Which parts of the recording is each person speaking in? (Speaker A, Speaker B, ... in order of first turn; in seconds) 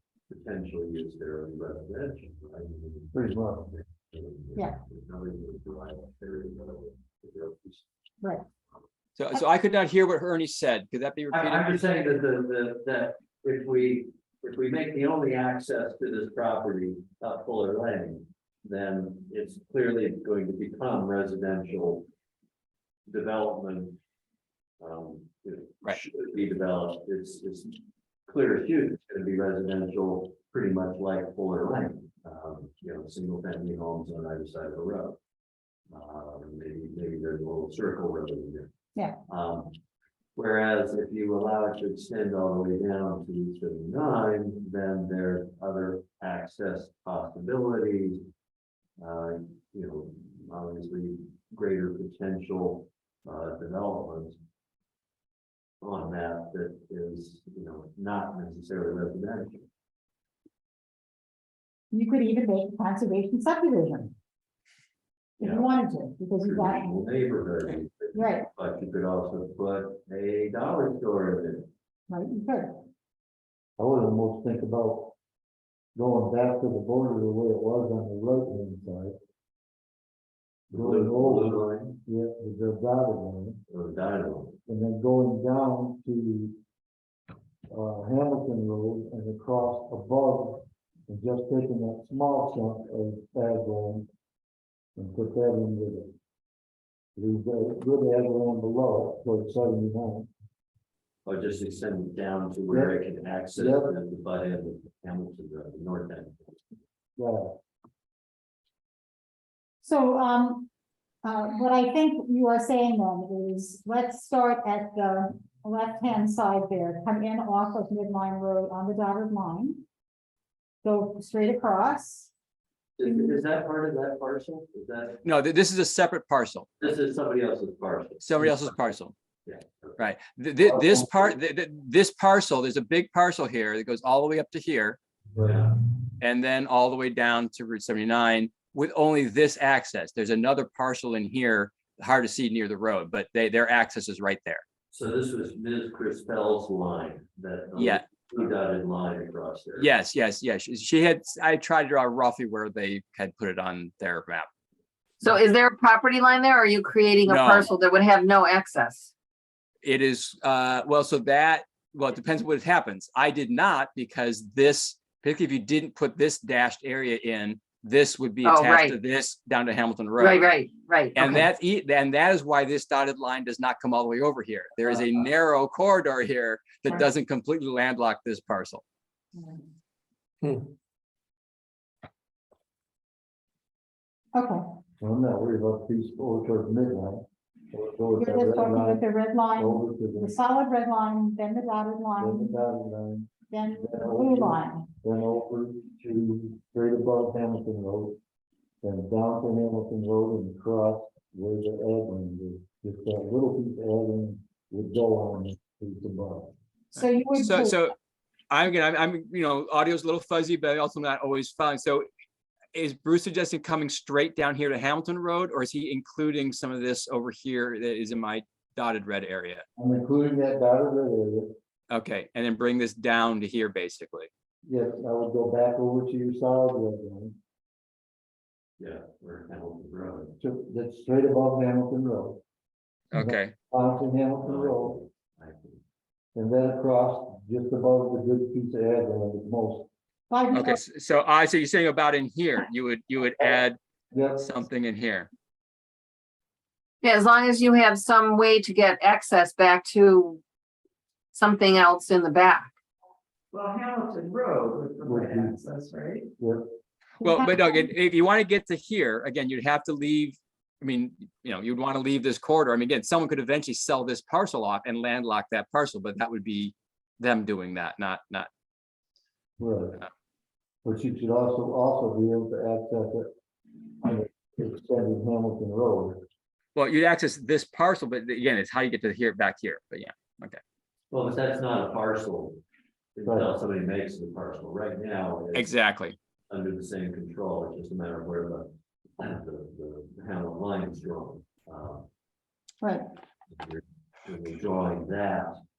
Speaker A: 0.3-3.2, 3.7-7.8, 11.3-22.1, 23.1-24.0, 24.8-27.8, 28.3-35.2, 35.9-38.7, 39.3-39.8, 40.4-48.2, 49.0-54.4, 55.8-59.7, 65.4-65.7, 66.4-71.7, 80.7-82.0, 83.7-84.6, 101.2-106.5, 123.0-125.2, 126.8-128.8, 129.4-130.0, 130.7-131.2, 135.4-135.7, 144.9-149.9, 228.8-230.3, 234.4-235.8, 281.1-282.6, 283.1-285.8, 286.5-292.1, 293.5-295.5
Speaker B: 3.1-3.7, 73.8-75.1, 75.9-79.1, 80.7-83.6, 84.7-86.6, 87.7-94.1, 95.0-96.1, 97.2-100.3, 102.7-103.0, 103.5-103.9, 107.2-107.5, 185.0-190.3, 192.2-198.2, 198.8-206.5, 219.8-221.5, 224.6-227.3, 230.4-232.4, 233.1-235.0, 236.3-239.9, 244.1-244.4, 255.0-255.6, 269.6-270.0, 270.8-273.3, 274.0-276.2, 283.2-283.6
Speaker C: 9.2-11.8, 125.2-126.8, 128.2-129.1, 130.0-135.0, 136.2-144.6, 147.8-148.1, 149.8-154.5, 157.3-157.7, 159.8-170.5, 171.1-178.8, 206.9-207.9, 208.5-212.1, 212.7-219.6, 221.9-224.3, 233.1-233.5, 240.5-243.8, 244.4-245.3, 257.2-268.5, 276.7-280.6, 285.5-286.1
Speaker D: 61.9-64.1, 65.4-66.9, 68.1-68.5, 72.1-72.7, 109.8-110.7, 111.2-119.8, 120.8-122.3, 123.0-123.4, 179.3-179.6, 184.3-184.6, 188.2-192.6, 193.5-194.9, 206.9-207.8, 240.3-240.8, 257.2-257.9
Speaker E: 155.2-159.1, 168.4-169.0, 170.2-171.4, 247.0-250.4, 251.3-252.7
Speaker F: 253.5-256.2